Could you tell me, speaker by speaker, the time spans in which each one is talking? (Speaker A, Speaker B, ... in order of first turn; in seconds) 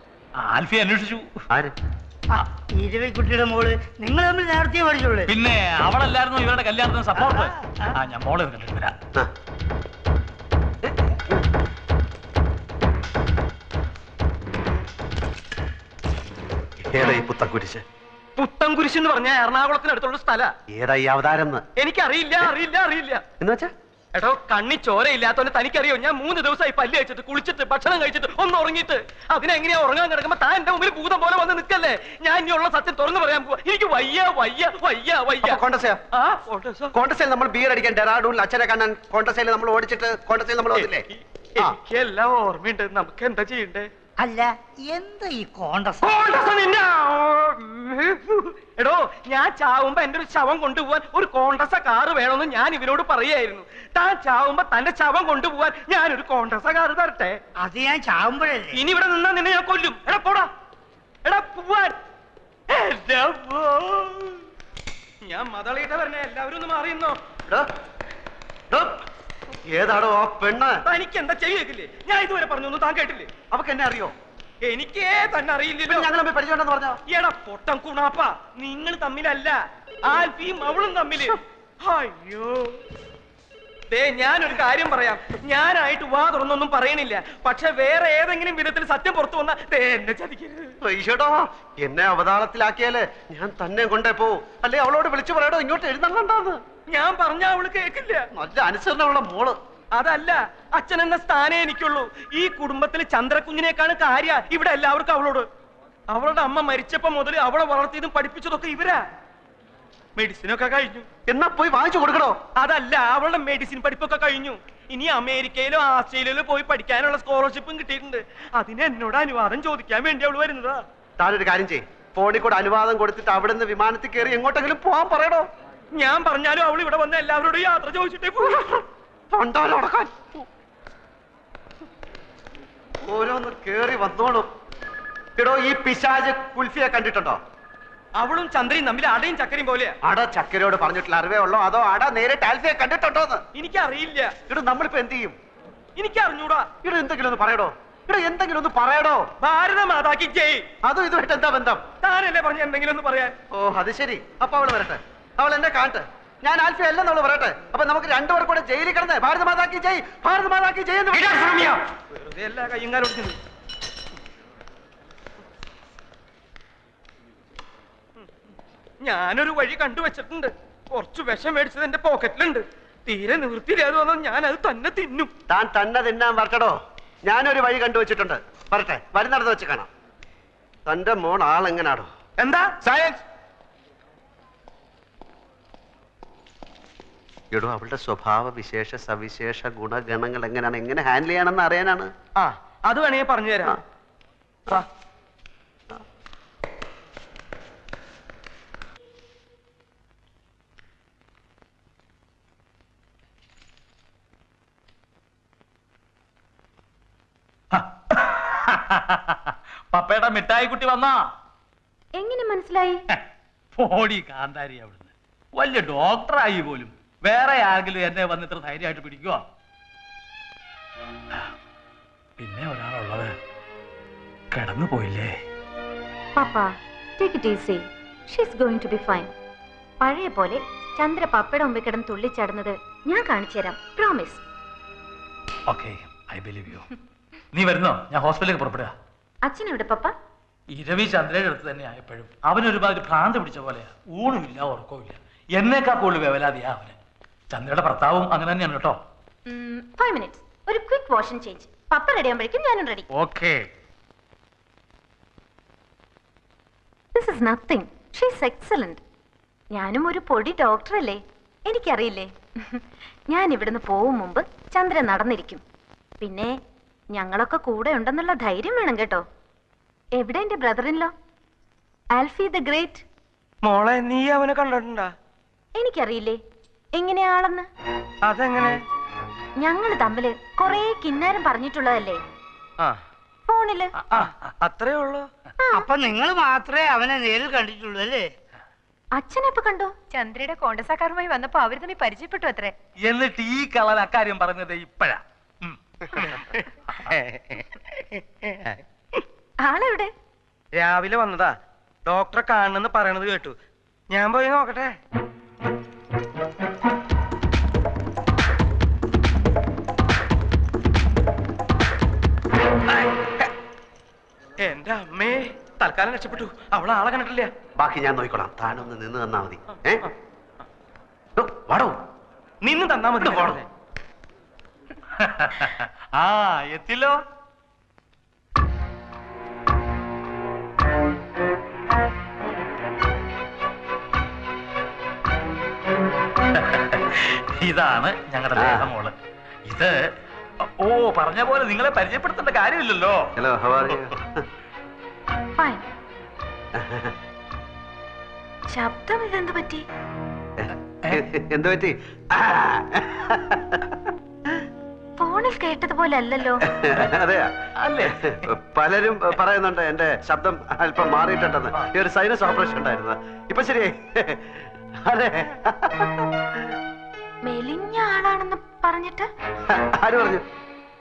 Speaker A: 0.4-1.2, 5.3-8.9, 207.7-211.3, 213.8-219.4, 222.4-223.3, 224.5-225.3, 235.7-236.9, 237.5-238.9, 240.8-247.0, 247.5-249.0, 253.1-253.7, 293.0-296.3, 325.2-327.2, 336.6-339.1, 339.7-340.0, 340.8-343.2, 357.8-358.4
Speaker B: 2.3-5.3, 44.2-46.0, 57.6-58.8, 285.7-288.3
Speaker C: 16.9-17.8, 20.8-21.6, 23.4-23.7, 35.4-36.0, 36.9-41.0, 68.7-69.0, 69.7-70.8, 73.5-74.1, 75.9-77.0, 90.8-96.6, 98.3-99.5, 111.3-112.4, 121.2-125.5, 128.4-128.8, 129.3-130.4, 133.1-134.5, 135.4-137.4, 140.0-143.4, 144.5-145.4, 146.8-149.2, 150.8-151.8, 153.5-161.5, 175.5-179.9, 180.9-182.1, 187.5-192.1, 317.8-320.1, 321.4-322.0, 323.2-323.6, 338.6-338.9, 343.4-344.2, 346.8-347.1, 350.6-353.8, 356.7-357.5, 358.0-364.4, 365.1-366.2, 369.8-370.4
Speaker D: 18.4-20.5, 21.8-23.2, 24.2-35.6, 36.1-36.9, 41.6-43.9, 46.0-57.4, 58.8-60.5, 61.3-62.0, 62.7-64.4, 65.3-67.2, 70.9-73.3, 74.7-76.1, 77.1-82.8, 83.9-90.7, 96.9-98.2, 99.9-105.5, 106.1-109.0, 110.2-111.1, 112.6-120.8, 126.0-128.6, 138.2-139.9, 143.6-144.3, 146.0-146.7, 149.4-150.6, 152.0-153.3, 161.1-163.4, 169.0-175.3, 182.4-183.2, 192.4-193.8, 273.7-275.1, 278.3-278.8, 284.1-285.3, 297.1-297.6, 300.8-301.5, 302.1-303.5, 304.1-304.9, 314.6-317.5, 322.6-323.7
Speaker E: 212.2-213.0, 226.4-229.3, 230.0-234.4, 239.4-240.1, 249.5-253.1, 257.1-259.0, 259.7-265.6, 266.2-266.5, 267.1-269.2, 270.2-271.1, 272.1-273.0, 275.8-276.4, 277.0-277.7, 279.6-282.2, 283.5-283.9, 285.6-285.9, 289.1-289.9, 299.6-300.1, 345.6-345.9, 348.7-349.9, 355.2-356.6, 367.4-369.3
Speaker F: 290.1-292.8